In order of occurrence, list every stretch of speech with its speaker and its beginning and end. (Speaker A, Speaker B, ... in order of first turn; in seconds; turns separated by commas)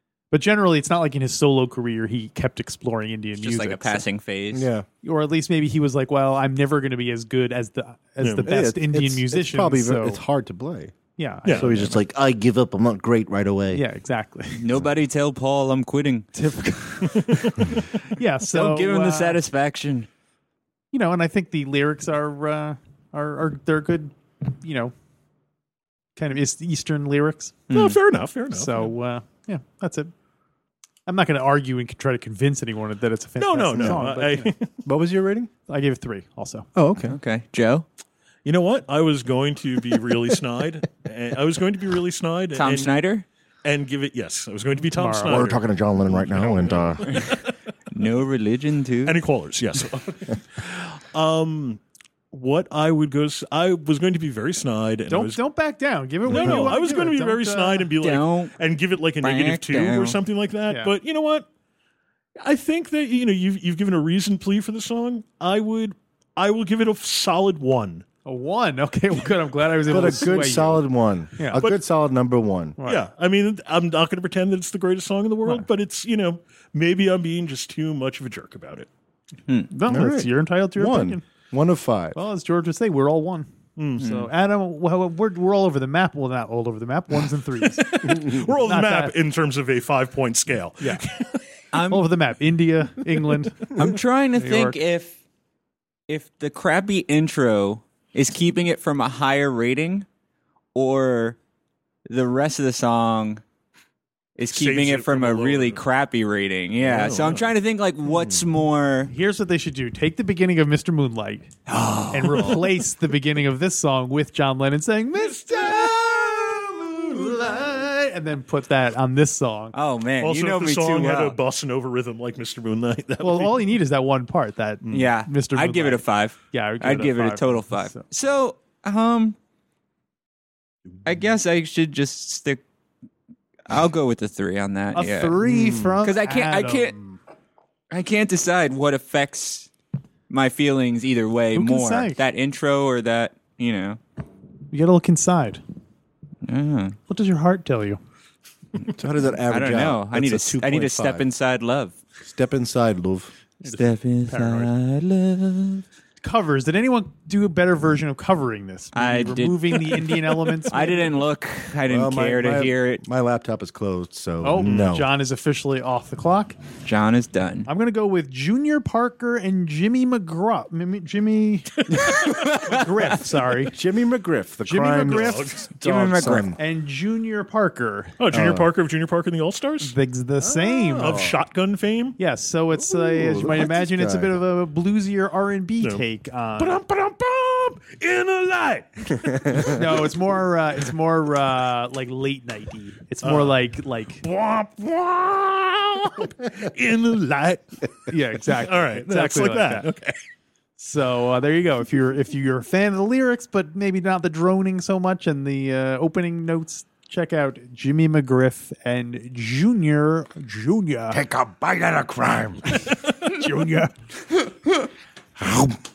Speaker A: 0.3-4.0, Speaker B: 3.4-4.7, Speaker C: 4.5-4.9, Speaker A: 5.0-10.2, Speaker D: 8.2-8.5, Speaker C: 8.4-10.9, Speaker A: 11.2-12.0, Speaker D: 11.5-11.7, Speaker C: 11.5-13.8, Speaker A: 13.7-14.6, Speaker B: 14.5-16.3, Speaker A: 16.4-19.4, Speaker D: 17.2-17.5, Speaker B: 18.5-20.1, Speaker A: 20.9-24.9, Speaker A: 26.2-27.6, Speaker B: 27.7-28.0, Speaker D: 27.7-28.9, Speaker A: 28.5-30.1, Speaker A: 31.1-34.5, Speaker D: 33.4-34.7, Speaker C: 33.8-34.0, Speaker C: 34.9-35.5, Speaker A: 35.7-36.7, Speaker C: 36.8-37.2, Speaker B: 37.1-37.9, Speaker D: 38.5-42.9, Speaker B: 42.5-43.2, Speaker D: 43.6-47.5, Speaker A: 45.0-45.6, Speaker C: 45.2-47.1, Speaker B: 47.9-49.2, Speaker D: 49.0-51.8, Speaker D: 52.3-55.4, Speaker A: 55.1-57.9, Speaker D: 56.3-61.5, Speaker C: 56.3-56.7, Speaker B: 58.0-58.5, Speaker B: 59.2-60.2, Speaker D: 62.4-68.0, Speaker A: 68.2-70.8, Speaker C: 69.9-72.8, Speaker A: 71.4-71.6, Speaker D: 71.5-71.8, Speaker A: 72.8-73.0, Speaker D: 72.8-78.9, Speaker A: 79.7-81.2, Speaker C: 79.9-82.2, Speaker A: 82.1-89.2, Speaker D: 83.8-84.1, Speaker B: 84.0-84.3, Speaker D: 87.6-91.4, Speaker B: 91.7-92.1, Speaker A: 91.9-93.8, Speaker B: 93.8-95.2, Speaker A: 94.4-94.8, Speaker B: 96.1-100.1, Speaker B: 100.8-101.4, Speaker B: 102.1-103.4, Speaker B: 104.4-109.1, Speaker D: 104.5-105.8, Speaker D: 106.8-107.5, Speaker D: 108.1-108.4, Speaker A: 109.1-111.5, Speaker B: 111.7-112.6, Speaker A: 112.1-115.8, Speaker D: 115.2-116.9, Speaker B: 115.5-116.6, Speaker A: 116.9-119.8, Speaker B: 119.7-121.4, Speaker D: 120.2-123.7, Speaker A: 123.2-128.0, Speaker D: 124.8-125.1, Speaker B: 124.9-129.4, Speaker B: 131.1-132.6, Speaker B: 133.7-135.4, Speaker A: 134.9-137.2, Speaker C: 135.5-135.7, Speaker B: 136.0-136.9, Speaker B: 137.9-139.7, Speaker B: 140.3-144.0, Speaker A: 141.5-142.2, Speaker A: 144.7-145.6, Speaker B: 146.4-147.0, Speaker A: 147.1-148.0, Speaker C: 148.9-151.2, Speaker B: 149.5-152.0, Speaker C: 152.2-153.3, Speaker A: 153.6-154.7, Speaker B: 153.7-155.8, Speaker A: 156.2-161.1, Speaker B: 158.9-163.0, Speaker C: 161.9-165.1, Speaker A: 164.4-166.6, Speaker D: 164.6-165.0, Speaker B: 166.8-167.7, Speaker A: 167.7-173.8, Speaker B: 172.1-172.8, Speaker C: 173.7-176.6, Speaker A: 174.7-175.6, Speaker D: 175.1-175.7, Speaker B: 175.8-176.5, Speaker A: 176.6-178.2, Speaker D: 178.2-179.9, Speaker C: 178.3-178.7, Speaker A: 179.8-181.2, Speaker C: 180.4-181.4, Speaker D: 180.9-182.2, Speaker A: 182.2-186.8, Speaker C: 182.9-184.4, Speaker D: 186.6-190.0, Speaker C: 189.3-189.7, Speaker A: 189.6-194.2, Speaker D: 193.2-193.6, Speaker D: 194.2-200.2, Speaker A: 198.1-199.9, Speaker A: 200.8-211.2, Speaker C: 211.1-212.9, Speaker A: 213.0-213.9, Speaker C: 215.4-215.8